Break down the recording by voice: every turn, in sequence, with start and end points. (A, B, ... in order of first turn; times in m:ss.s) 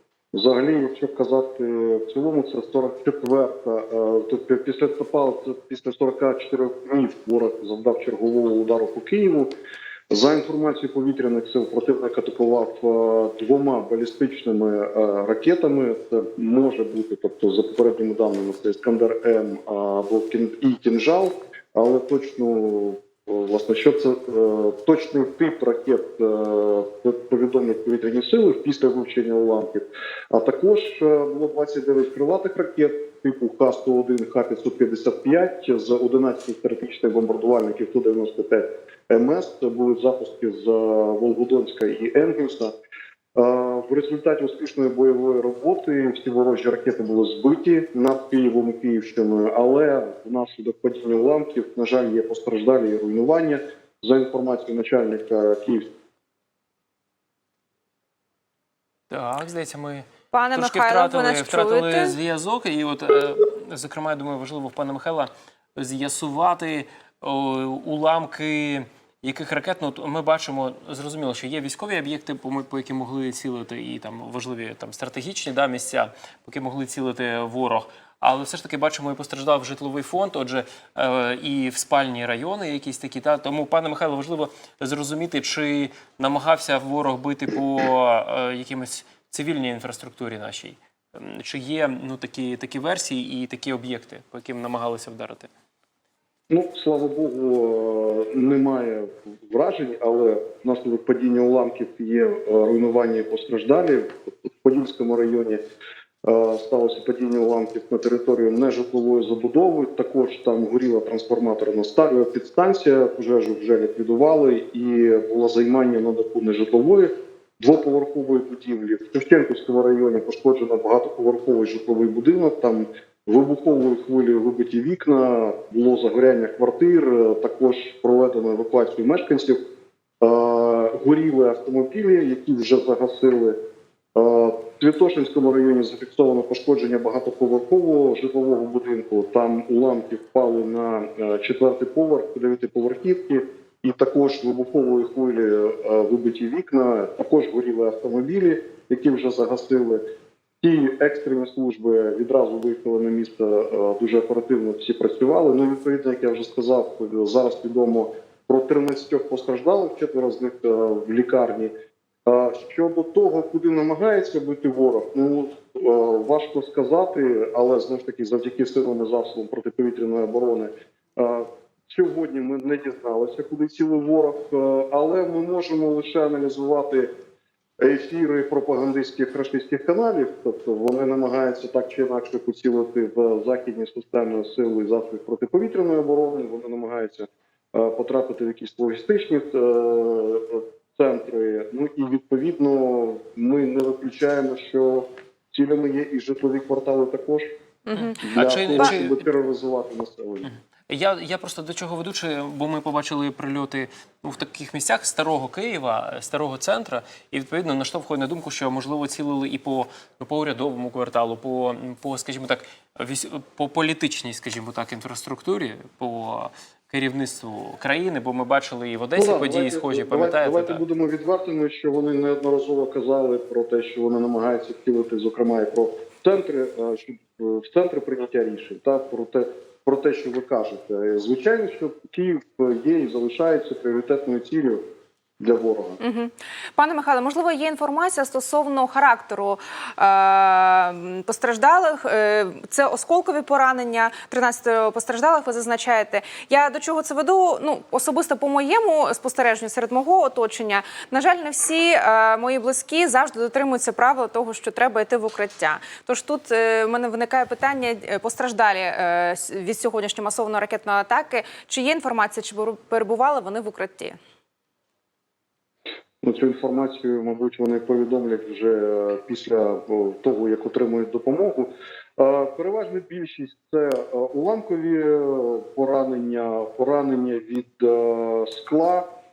0:00.3-0:09.5 A
0:10.1-0:42.8 A
0:43.4-0:55.9 A
0:59.1-1:35.5 B
1:00.3-1:02.1 C
1:36.5-1:45.6 A
1:46.2-2:09.6 A
2:10.2-2:13.6 A
2:14.1-2:30.0 A
2:30.6-2:41.7 A
2:42.2-2:57.1 A
2:57.8-3:17.5 A
3:17.8-3:18.9 C
3:17.9-3:19.2 B
3:18.2-3:20.5 A
3:20.4-3:40.8 B
3:39.1-3:54.8 A
3:55.4-3:56.0 A
3:56.0-4:24.2 C
4:26.2-4:39.1 A